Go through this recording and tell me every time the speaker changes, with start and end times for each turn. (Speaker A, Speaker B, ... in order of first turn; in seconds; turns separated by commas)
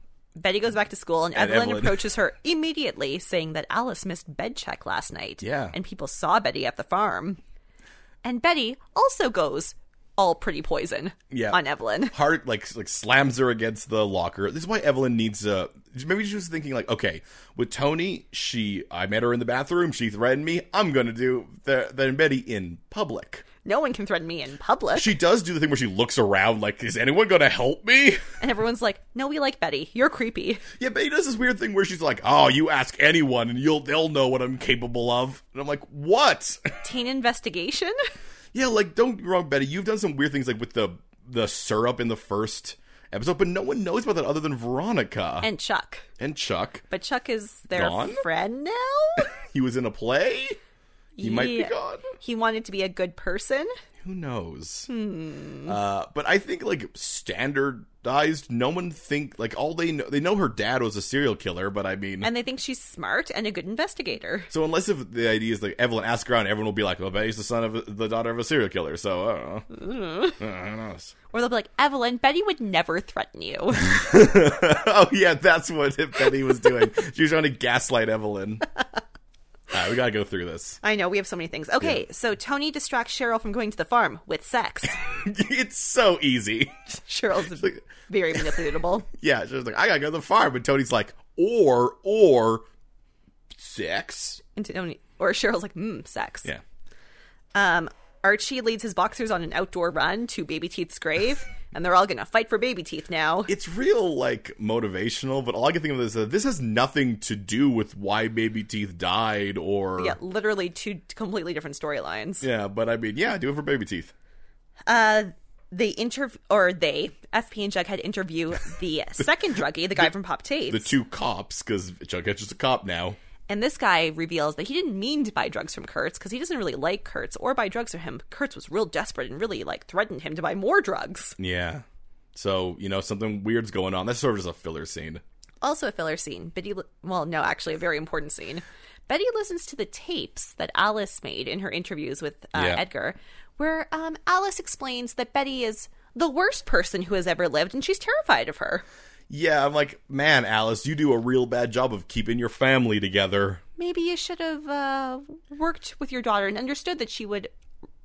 Speaker A: 0.4-7.4, Speaker B: 1.3-2.0, Speaker B: 5.4-5.8, Speaker A: 8.2-12.1, Speaker B: 11.3-11.6, Speaker B: 12.1-23.4, Speaker A: 23.6-25.1, Speaker B: 24.9-28.2, Speaker A: 28.4-30.6, Speaker B: 30.8-36.7, Speaker A: 36.8-38.0, Speaker B: 38.5-45.5, Speaker A: 45.4-46.0, Speaker B: 46.2-46.8, Speaker A: 46.9-49.3, Speaker B: 47.7-48.2, Speaker B: 49.2-50.6, Speaker A: 51.2-53.7, Speaker B: 51.2-52.1, Speaker B: 54.0-54.9, Speaker A: 54.9-55.8, Speaker B: 55.6-62.3, Speaker A: 62.2-64.5, Speaker B: 64.5-69.7, Speaker A: 69.7-70.4, Speaker B: 70.4-71.1, Speaker A: 71.3-74.0, Speaker B: 73.8-78.6, Speaker B: 79.7-80.8, Speaker A: 80.8-85.0, Speaker B: 85.0-87.0, Speaker A: 87.1-89.1, Speaker B: 87.5-92.6, Speaker B: 93.5-94.4, Speaker A: 94.5-96.5, Speaker A: 97.5-103.5, Speaker B: 103.5-110.2, Speaker A: 110.0-112.5, Speaker B: 112.4-114.1, Speaker A: 114.9-120.9, Speaker B: 120.7-123.2, Speaker A: 123.5-131.4, Speaker B: 131.4-131.8, Speaker B: 132.3-135.2, Speaker A: 135.6-148.8, Speaker B: 142.5-142.8, Speaker B: 149.3-153.6, Speaker A: 153.8-157.5